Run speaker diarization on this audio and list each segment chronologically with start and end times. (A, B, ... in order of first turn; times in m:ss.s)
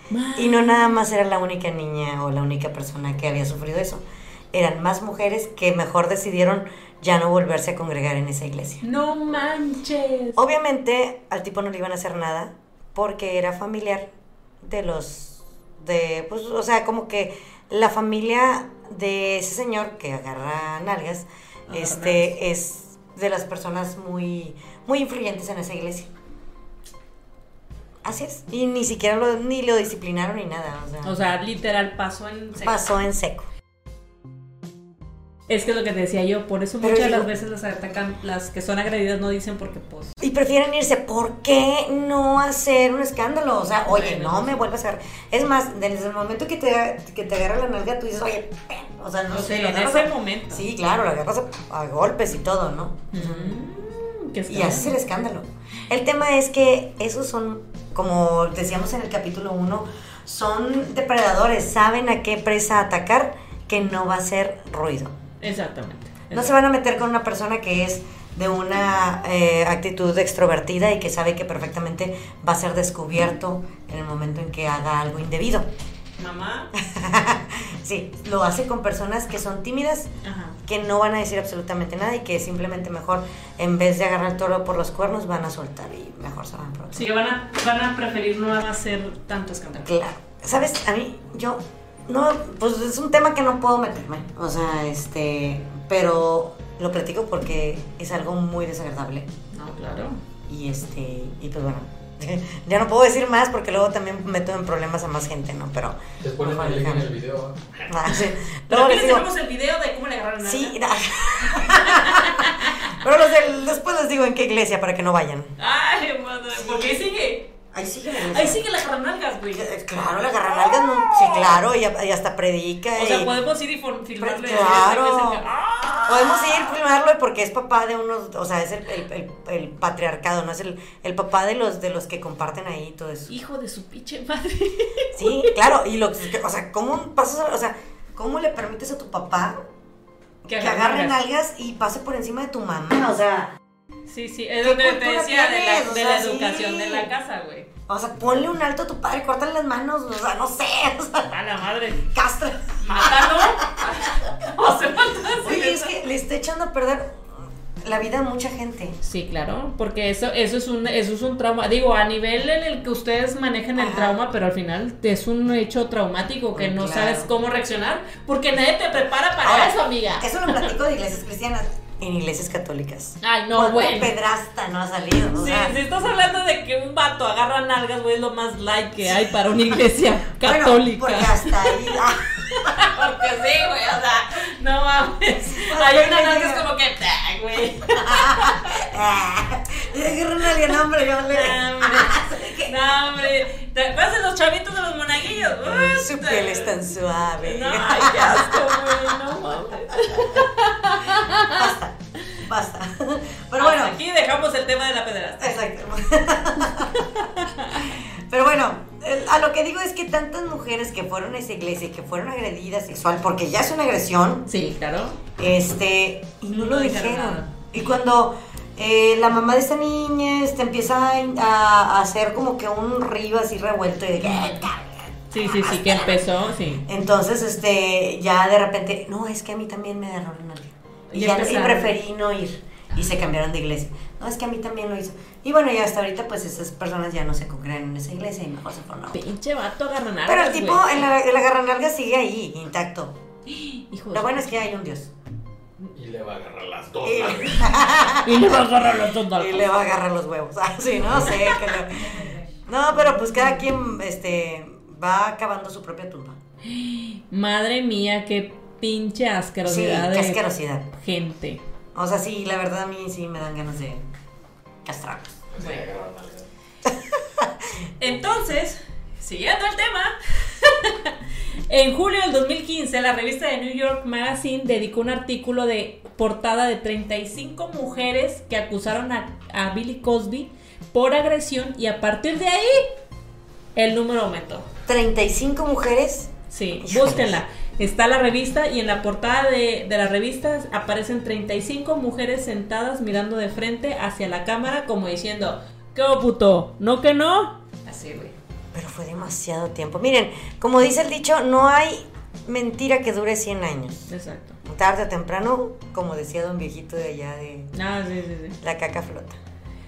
0:00.1-0:00.8 A
0:00.4-0:08.8 B
0:08.8-0:10.4 A
0:10.4-0:14.1 B
0:14.6-0:26.1 B
0:21.7-0:22.3 A
0:28.0-0:31.2 B
0:31.0-0:32.8 A
0:32.6-0:33.5 B
0:35.5-0:40.1 A
0:36.8-0:37.3 B
0:40.2-0:53.6 B
0:43.9-0:44.6 A
0:49.3-0:50.6 A
0:53.1-0:55.0 A
0:54.5-1:05.1 B
1:05.4-1:06.5 A
1:06.3-1:15.7 B
1:16.2-1:16.7 A
1:16.8-1:20.1 B
1:20.2-1:20.6 A
1:20.6-1:27.1 B
1:26.9-1:29.9 A
1:29.8-1:39.3 B
1:39.5-1:40.2 A
1:40.5-1:47.1 B
1:46.2-1:47.6 C
1:47.9-1:49.2 B
1:48.7-1:50.8 A
1:50.4-1:55.6 B
1:51.4-1:53.0 A
1:55.6-1:57.5 A
1:56.5-1:57.1 B
1:57.7-1:58.6 B
1:58.1-2:01.6 A
1:59.5-2:03.3 B
2:02.9-2:06.8 A
2:04.2-2:05.4 B
2:06.0-2:13.3 B
2:13.3-2:15.6 A
2:15.1-2:19.6 B
2:20.5-2:21.2 A
2:20.5-2:23.5 B
2:24.1-2:27.7 A
2:24.6-2:27.1 B
2:27.9-2:31.4 B
2:31.3-2:32.1 A
2:32.1-2:33.7 B
2:32.8-2:35.9 A
2:35.4-2:37.3 B
2:37.8-2:39.0 B
2:39.0-2:50.7 A
2:43.8-2:44.2 B
2:46.5-2:47.3 B
2:49.4-2:55.8 B
2:53.2-2:54.1 A
2:55.3-3:08.9 A
3:00.4-3:02.9 B
3:05.4-3:06.6 B
3:07.9-3:12.7 B
3:11.3-3:16.8 A
3:15.5-3:19.3 B
3:17.4-3:21.7 A
3:19.9-3:20.4 B
3:21.1-3:24.0 B
3:23.6-3:25.6 A
3:25.4-3:34.5 B
3:26.9-3:28.0 A
3:34.5-3:35.2 A
3:35.4-3:46.2 B
3:36.5-3:37.7 A
3:44.3-3:44.6 A
3:45.3-3:46.8 A
3:46.8-3:59.2 B
3:51.1-3:52.0 A
3:59.1-4:01.0 A
4:00.3-4:03.2 B
4:03.5-4:04.5 A
4:04.1-4:05.1 B
4:05.9-4:07.8 C
4:07.0-4:08.6 B
4:08.2-4:09.7 A
4:09.4-4:16.4 B
4:11.2-4:12.4 A
4:12.9-4:13.6 A
4:16.7-4:20.4 A
4:19.6-4:20.9 B
4:21.0-4:21.6 A
4:22.0-4:24.0 B
4:24.8-4:25.4 B
4:25.5-4:26.5 C
4:25.6-4:25.9 A
4:26.8-4:27.7 B
4:28.0-4:31.2 A
4:31.7-4:42.9 A
4:43.8-4:44.7 A
4:44.9-4:47.4 B
4:46.5-4:58.4 A
4:58.7-5:04.1 B
5:04.1-5:04.6 A
5:04.6-5:07.7 B
5:07.7-5:08.6 A
5:08.6-5:09.4 B